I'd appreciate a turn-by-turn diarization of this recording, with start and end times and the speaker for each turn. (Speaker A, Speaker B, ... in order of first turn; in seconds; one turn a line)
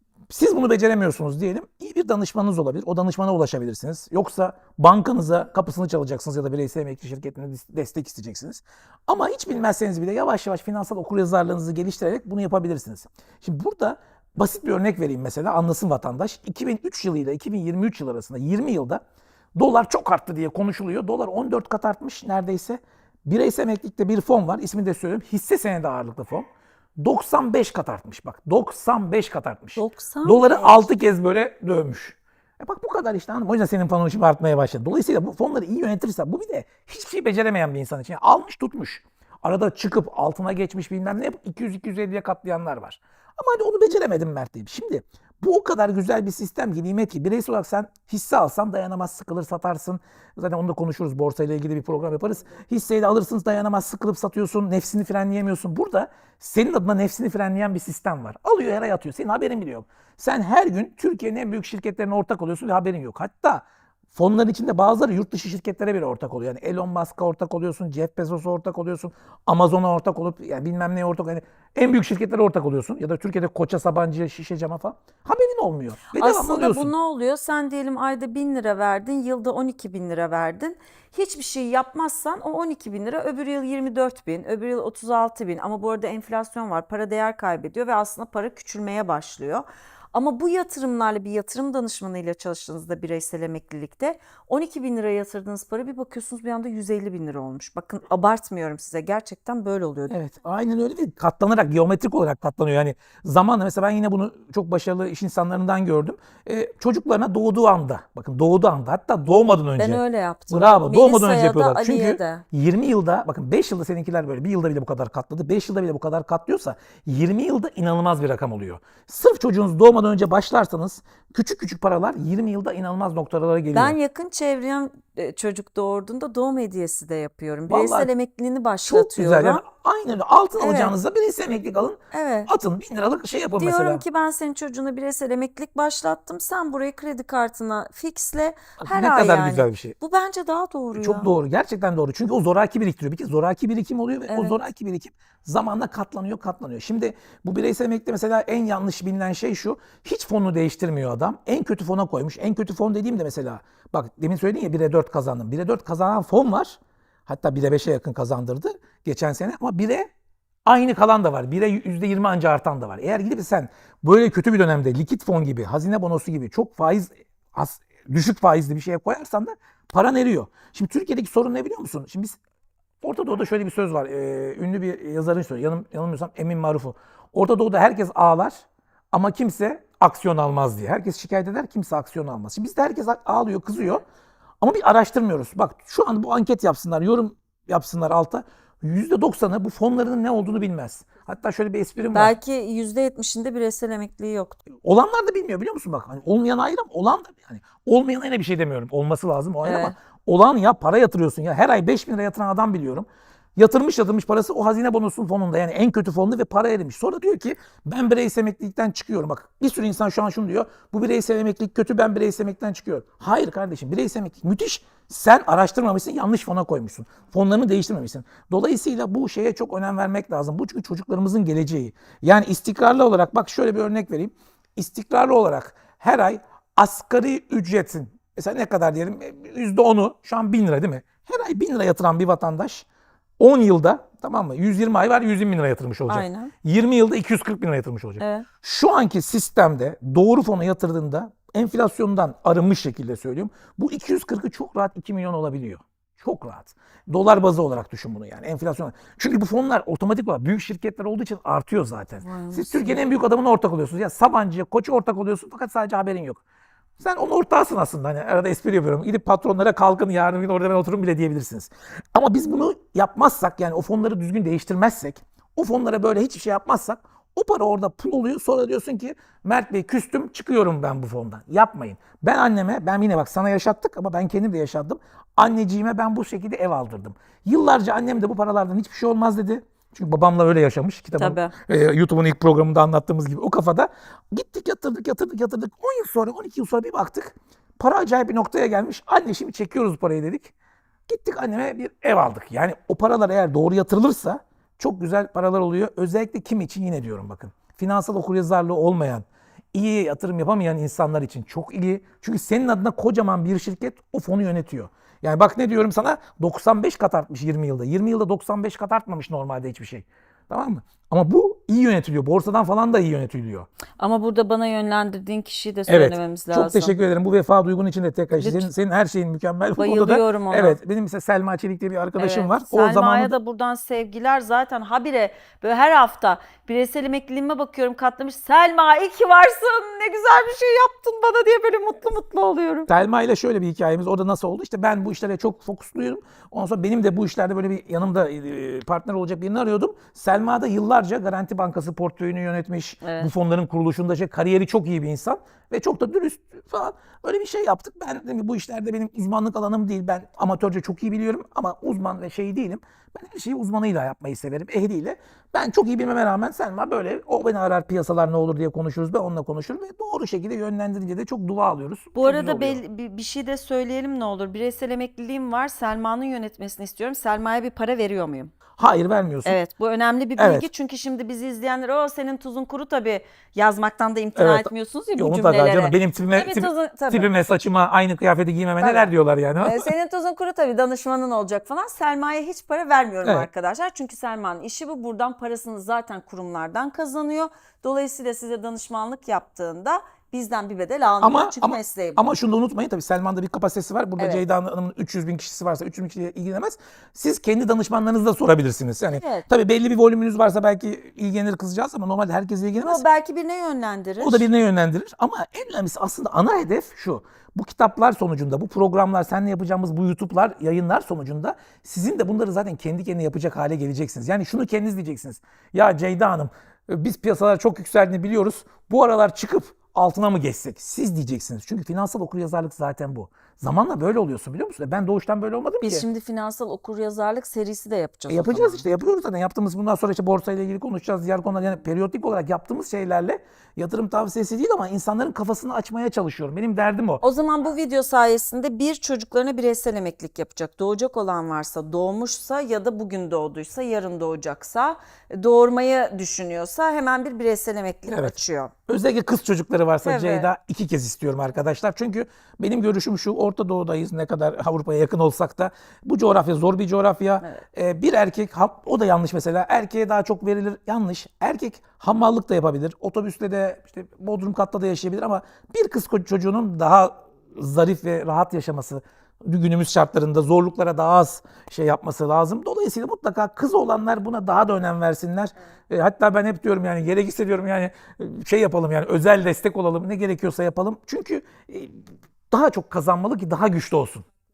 Speaker A: 0.3-19.0
Speaker A: 19.6-26.4
Speaker A: 27.0-76.9
Speaker B: 29.8-30.9
Speaker B: 76.2-100.2
Speaker A: 100.1-124.0
Speaker B: 109.8-112.4
Speaker B: 123.7-129.6
Speaker A: 127.7-128.1
Speaker A: 128.8-134.0
Speaker B: 130.6-130.9
Speaker B: 132.1-132.5
Speaker B: 133.6-141.3
Speaker A: 138.8-139.9
Speaker A: 141.0-160.1
Speaker B: 144.3-144.6
Speaker A: 160.7-172.4
Speaker A: 173.0-184.0
Speaker A: 184.6-192.3
Speaker B: 192.1-194.6
Speaker A: 194.8-232.8
Speaker B: 199.6-199.9
Speaker A: 233.4-256.4
Speaker B: 236.1-236.5
Speaker B: 238.2-238.5
Speaker B: 252.2-253.0
Speaker A: 257.0-290.5
Speaker B: 281.2-281.5
Speaker A: 291.1-313.7
Speaker B: 314.0-316.9
Speaker A: 315.9-323.3
Speaker B: 318.4-318.7
Speaker B: 319.8-320.8
Speaker B: 322.2-332.9
Speaker A: 332.9-362.8
Speaker B: 343.0-343.3
Speaker B: 362.1-368.5
Speaker A: 368.8-369.6
Speaker B: 369.4-377.3
Speaker A: 370.4-370.7
Speaker A: 374.4-379.9
Speaker B: 378.8-392.3
Speaker A: 391.2-403.0
Speaker B: 394.2-394.4
Speaker B: 399.1-399.4
Speaker B: 402.8-404.5
Speaker A: 404.2-426.1
Speaker B: 425.8-428.8
Speaker A: 428.3-437.2
Speaker B: 437.2-448.7
Speaker A: 448.1-448.4
Speaker A: 448.9-484.3
Speaker B: 450.0-450.5